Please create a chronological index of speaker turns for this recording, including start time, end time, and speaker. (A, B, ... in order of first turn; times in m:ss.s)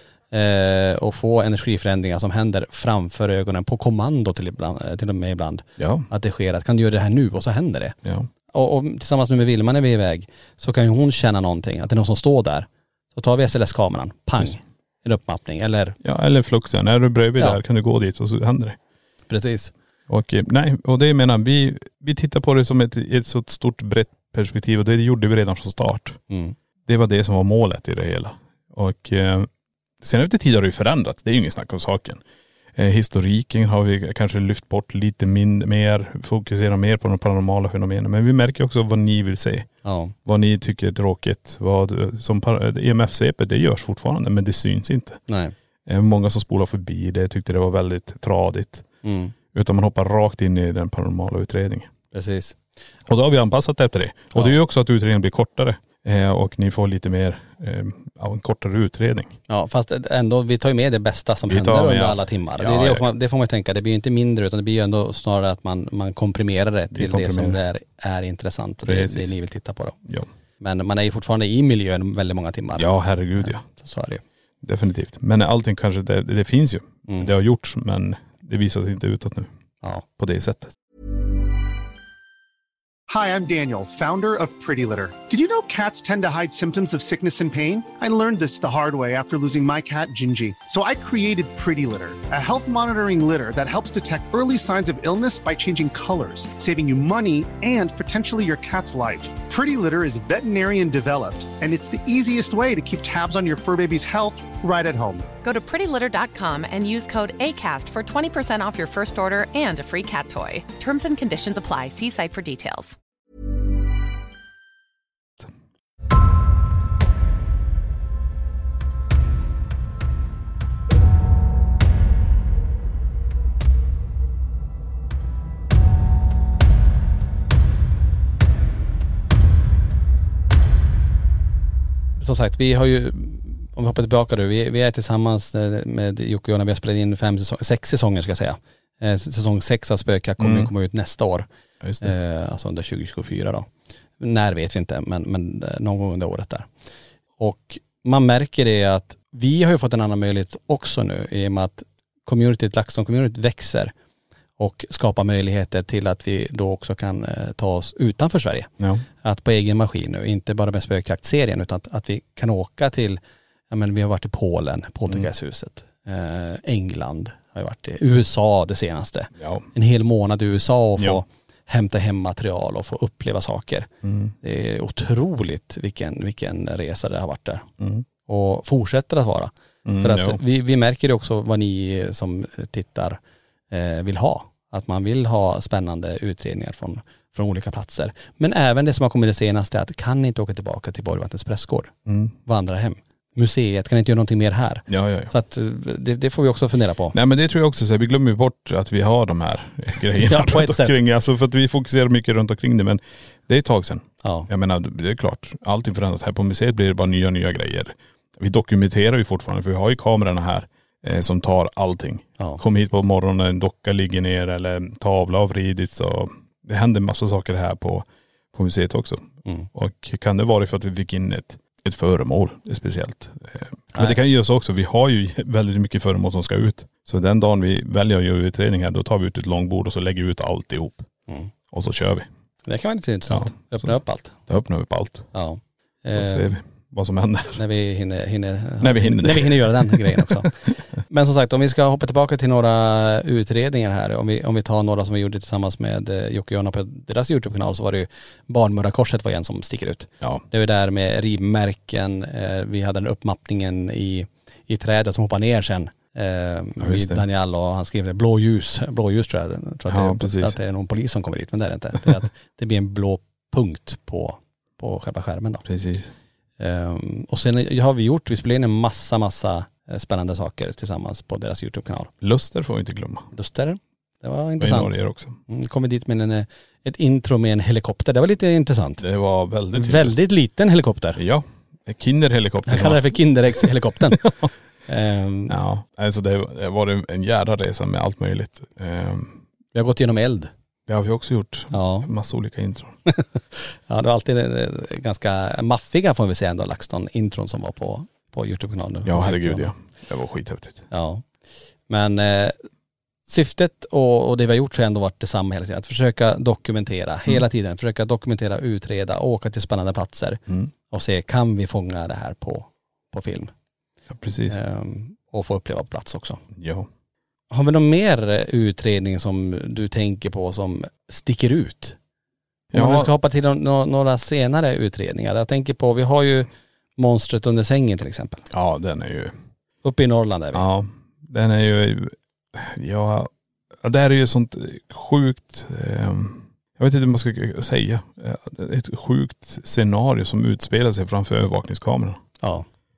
0:00.3-0:08.0 A
0:05.8-0:06.1 B
0:08.5-0:16.0 A
0:16.0-0:18.8 B
0:19.3-0:19.7 A
0:20.1-0:26.2 B
0:26.3-0:26.5 A
0:26.9-0:29.5 B
0:30.0-0:32.2 B
0:32.8-0:39.7 B
0:39.8-0:40.1 A
0:40.2-0:45.2 B
0:45.3-0:45.5 A
0:45.8-0:48.9 B
0:49.0-0:49.3 A
0:49.5-0:51.9 B
0:52.1-0:52.6 A
0:53.1-0:59.4 B
0:59.5-1:10.0 A
1:01.5-1:03.0 B
1:06.9-1:07.6 B
1:08.8-1:09.3 B
1:10.6-1:12.9 A
1:12.8-1:13.6 B
1:13.4-1:14.2 A
1:14.6-1:19.5 B
1:20.2-1:20.7 B
1:23.1-1:45.3 C
1:45.4-1:52.9 D
2:12.2-2:21.5 A
2:20.4-2:20.7 B
2:21.8-2:22.1 B
2:22.0-2:23.7 A
2:24.2-2:26.7 A
2:27.4-2:33.9 A
2:34.6-2:38.7 A
2:39.2-2:53.9 A
2:49.4-2:49.7 B
2:54.0-2:54.3 B
2:54.4-2:57.7 A
2:57.8-2:58.0 B
2:58.2-3:03.2 A
2:59.8-3:00.4 B
3:03.7-3:11.9 A
3:12.1-3:12.3 B
3:12.4-3:17.2 A
3:14.9-3:15.3 B
3:17.1-3:51.1 B
3:20.1-3:20.9 A
3:24.2-3:24.5 A
3:43.9-3:44.2 A
3:51.7-3:52.3 B
3:52.6-3:54.4 A
3:53.3-3:54.0 B
3:54.5-3:55.3 B
3:55.3-3:56.5 A
3:56.2-3:57.6 B
3:57.6-4:00.5 A
3:58.8-4:00.5 B
4:01.1-4:25.6 A
4:16.8-4:17.2 B
4:19.9-4:20.6 B
4:25.6-4:26.1 B
4:26.6-4:32.1 A
4:32.2-4:33.3 B
4:33.3-4:39.0 A
4:34.6-4:35.4 B
4:39.0-4:40.1 B
4:39.7-4:41.2 A
4:41.2-4:44.5 B
4:42.6-4:44.3 A
4:44.9-4:45.5 A
4:45.5-4:49.4 B
4:49.7-4:50.5 A
4:50.9-4:53.0 B
4:51.7-4:52.1 A
4:53.1-4:59.7 A
4:59.0-5:00.8 B
5:00.9-5:01.2 A
5:01.9-5:02.6 A
5:03.3-5:13.5 A
5:14.1-5:14.6 B
5:14.5-5:16.4 A
5:16.5-5:16.9 B
5:17.5-5:22.0 A
5:22.7-5:23.1 B
5:22.7-5:28.4 A
5:28.5-5:29.3 B
5:29.8-5:30.7 A
5:30.5-5:42.2 B